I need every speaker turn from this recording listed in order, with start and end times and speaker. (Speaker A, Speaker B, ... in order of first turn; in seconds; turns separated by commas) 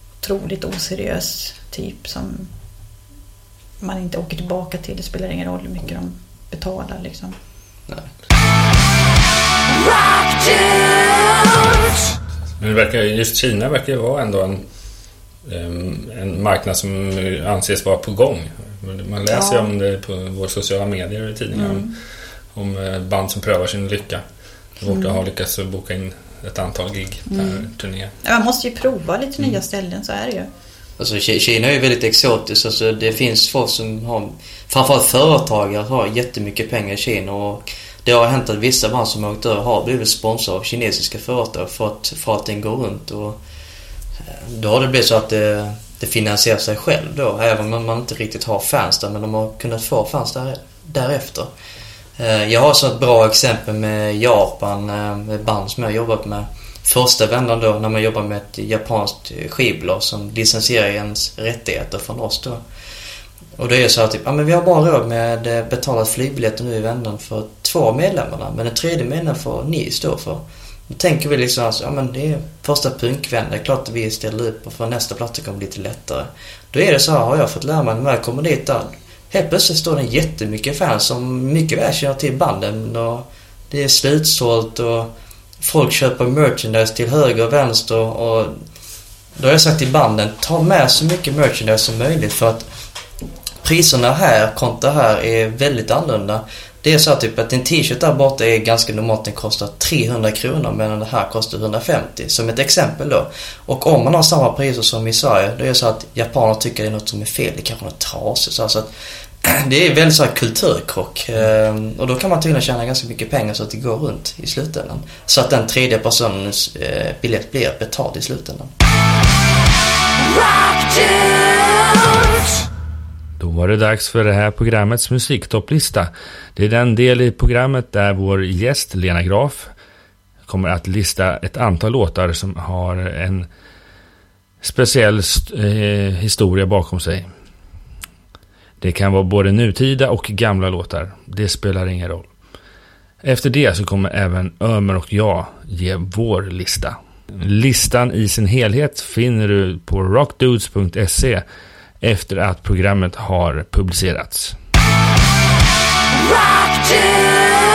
Speaker A: 0.2-2.5, Speaker A: 3.8-7.4, Speaker B: 12.6-14.7, Speaker B: 15.4-21.9, Speaker A: 19.3-19.7, Speaker A: 21.5-21.9, Speaker B: 22.5-24.2, Speaker B: 24.8-28.1, Speaker A: 24.9-25.2, Speaker A: 27.3-27.7, Speaker A: 28.2-30.5, Speaker C: 31.0-43.4, Speaker C: 44.2-51.5, Speaker C: 52.2-62.6, Speaker C: 63.6-88.6, Speaker C: 89.4-92.7, Speaker C: 93.6-108.9, Speaker C: 109.4-118.7, Speaker B: 123.4-129.7, Speaker B: 130.5-133.5, Speaker B: 134.6-137.3, Speaker B: 138.8-142.3, Speaker B: 143.2-151.4, Speaker B: 152.0-154.6